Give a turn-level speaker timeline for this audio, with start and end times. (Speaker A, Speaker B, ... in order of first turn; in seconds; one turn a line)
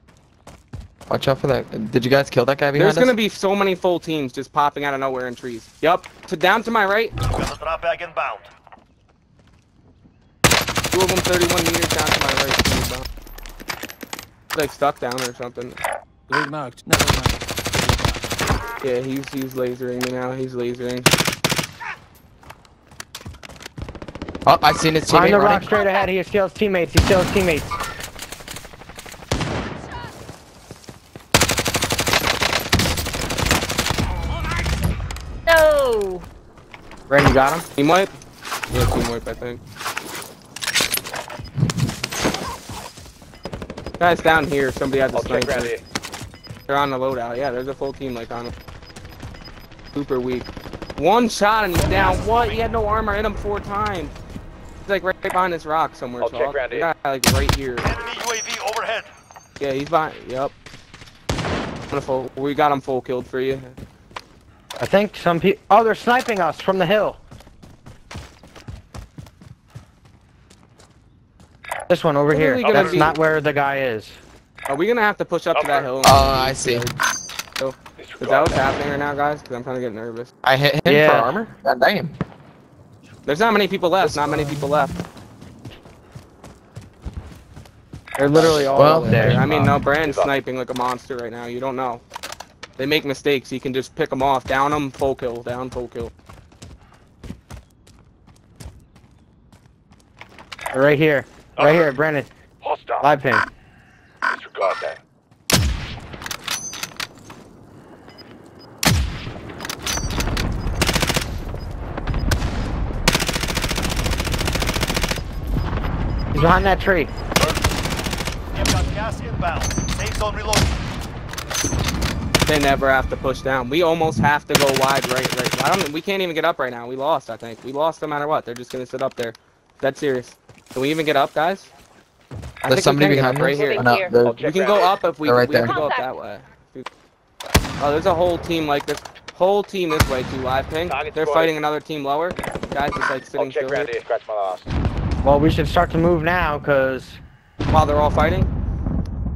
Speaker A: 1.1-3.1
Speaker B: 2.7-7.1
Speaker C: 7.2-8.5
Speaker B: 10.9-13.0
Speaker B: 14.5-15.8
Speaker D: 16.3-18.2
Speaker B: 18.8-21.1
Speaker A: 24.4-25.7
Speaker E: 25.1-27.8
Speaker F: 25.6-26.1
Speaker F: 35.5-36.2
Speaker E: 37.1-37.6
Speaker B: 37.8-38.1
Speaker B: 38.7-39.6
Speaker B: 44.0-45.7
Speaker G: 45.1-45.8
Speaker B: 46.7-48.5
Speaker B: 49.9-54.1
Speaker C: 51.8-52.6
Speaker B: 54.9-57.9
Speaker G: 56.2-56.9
Speaker C: 57.8-59.1
Speaker B: 59.6-60.5
Speaker B: 61.9-63.7
Speaker E: 64.8-67.2
Speaker E: 71.9-74.2
Speaker B: 72.3-73.2
Speaker C: 72.7-73.0
Speaker B: 74.7-77.0
Speaker G: 75.5-76.1
Speaker A: 76.0-76.9
Speaker B: 77.6-80.3
Speaker G: 78.0-78.6
Speaker A: 80.4-82.1
Speaker E: 80.8-81.4
Speaker B: 83.2-85.0
Speaker A: 84.0-84.7
Speaker E: 88.2-89.4
Speaker B: 88.3-92.0
Speaker A: 88.7-89.7
Speaker G: 90.0-90.3
Speaker B: 92.8-96.1
Speaker E: 100.7-102.3
Speaker G: 101.6-101.9
Speaker G: 102.6-103.1
Speaker E: 103.0-103.4
Speaker G: 104.3-105.0
Speaker E: 116.3-117.1
Speaker C: 117.3-117.6
Speaker C: 118.5-120.8
Speaker B: 122.5-131.7
Speaker A: 132.6-134.4
Speaker B: 132.6-136.8
Speaker F: 133.4-134.2
Speaker G: 134.2-134.9
Speaker A: 135.2-135.8
Speaker F: 135.6-136.1
Speaker B: 137.8-143.9
Speaker G: 140.8-141.5
Speaker G: 143.4-144.7
Speaker E: 145.2-147.2
Speaker B: 147.7-148.5